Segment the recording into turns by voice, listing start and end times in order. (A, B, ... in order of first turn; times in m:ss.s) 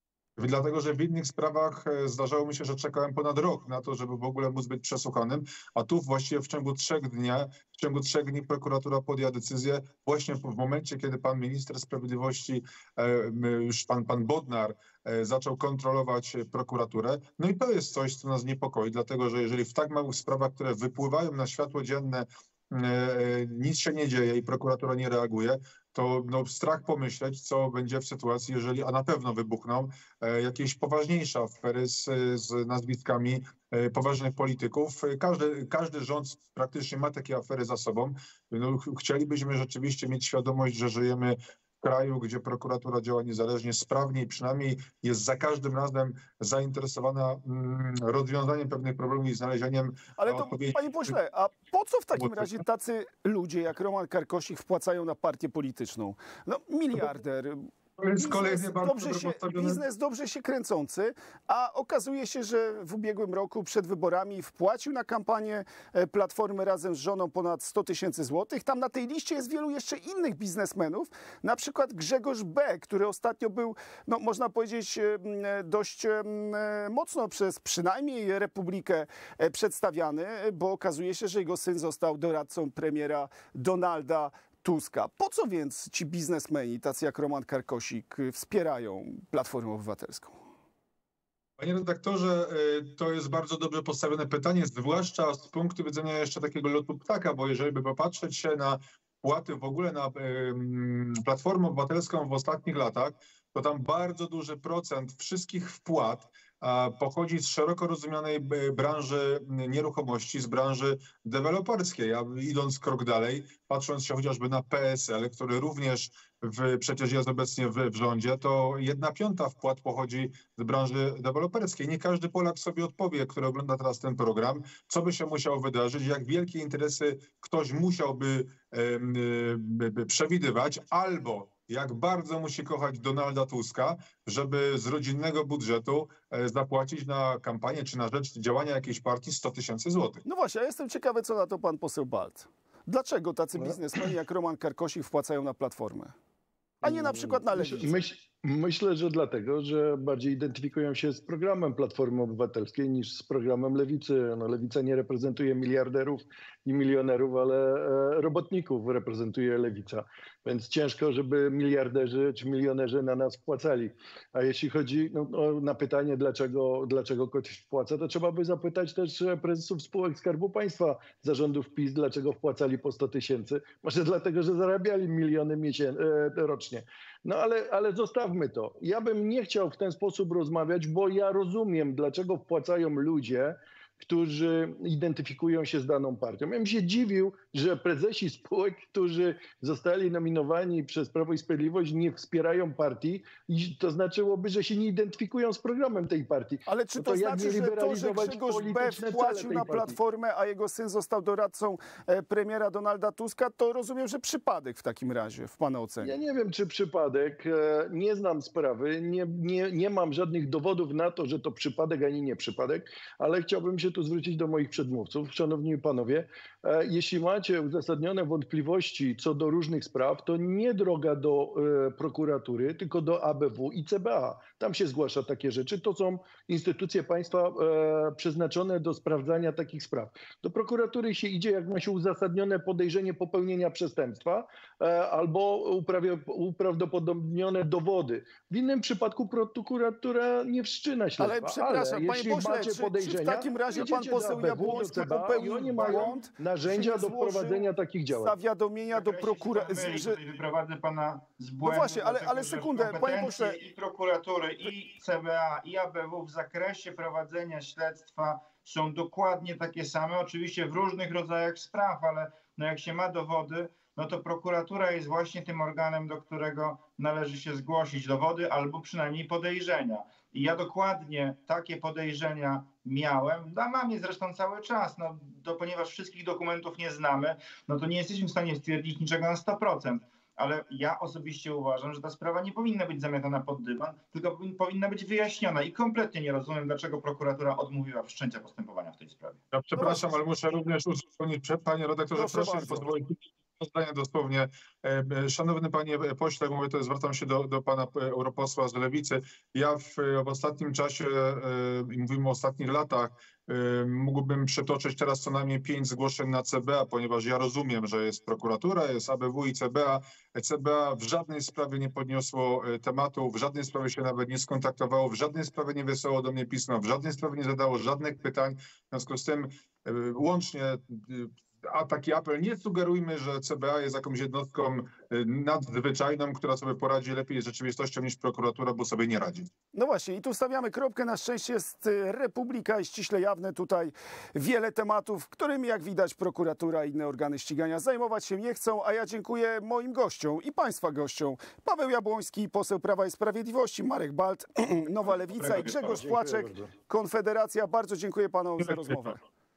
0:00.4-0:51.1 A
0:50.2-1:30.4 B
0:52.2-0:52.6 A
0:58.0-0:59.8 A
1:31.6-2:20.2 A
2:20.2-2:26.1 B
2:26.8-2:28.0 B
2:26.8-3:20.0 C
3:16.6-3:26.2 B
3:26.0-4:08.3 C
4:01.2-4:10.2 B
4:08.9-4:49.4 D
4:11.6-4:13.6 B
4:49.5-5:29.5 A
4:49.8-4:50.1 B
4:52.1-4:52.8 B
5:29.7-5:49.2 B
5:45.1-5:46.1 D
5:45.4-5:46.7 C